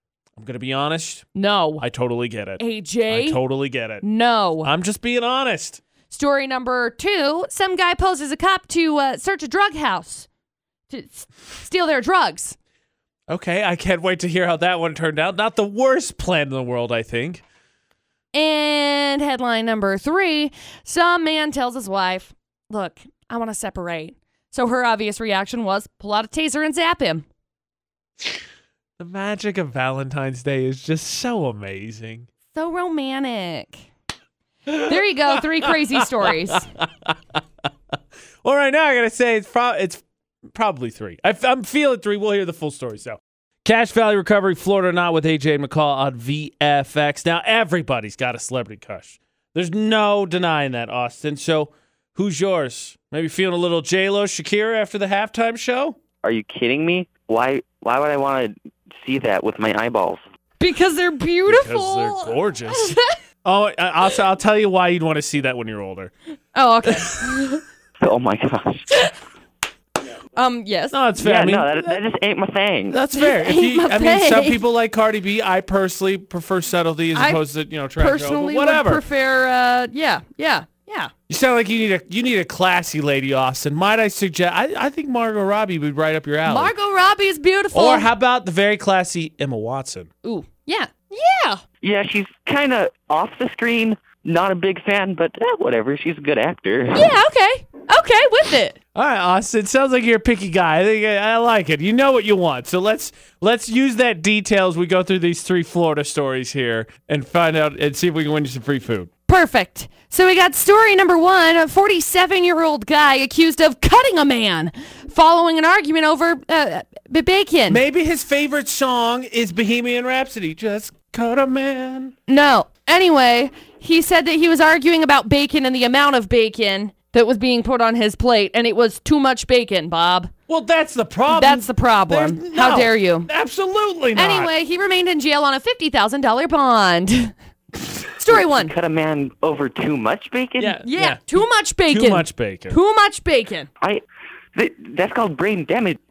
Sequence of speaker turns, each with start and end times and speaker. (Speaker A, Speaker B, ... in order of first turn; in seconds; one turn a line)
Speaker A: 0.3-1.3
Speaker B: 1.3-1.8
Speaker A: 1.8-4.0
Speaker B: 2.6-3.4
Speaker B: 4.0-4.7
Speaker A: 4.6-5.8
Speaker B: 6.1-10.3
Speaker B: 10.9-12.6
Speaker A: 13.3-17.4
Speaker B: 18.3-27.2
Speaker A: 29.0-32.3
Speaker B: 32.5-33.8
Speaker A: 34.7-37.4
Speaker B: 34.8-36.7
Speaker A: 38.4-56.0
Speaker C: 56.2-60.2
Speaker B: 60.6-63.2
Speaker A: 61.5-66.1
Speaker B: 66.5-67.6
Speaker C: 68.0-68.9
Speaker B: 70.3-71.0
Speaker A: 70.9-72.0
Speaker C: 71.2-73.0
Speaker A: 72.9-79.0
Speaker B: 73.1-74.6
Speaker B: 77.1-77.4
Speaker B: 77.9-81.1
Speaker A: 81.3-86.7
Speaker B: 86.4-88.1
Speaker A: 87.7-90.1
Speaker B: 90.2-91.6
Speaker C: 91.8-97.1
Speaker B: 96.9-98.8
Speaker A: 98.9-109.1
Speaker B: 109.3-117.8
Speaker A: 117.7-122.1
Speaker B: 122.3-130.3
Speaker A: 130.5-134.5
Speaker B: 131.3-133.3
Speaker B: 134.1-137.3
Speaker B: 138.2-138.7
Speaker C: 138.3-140.8
Speaker A: 140.6-142.8
Speaker B: 140.8-143.7
Speaker C: 144.5-146.0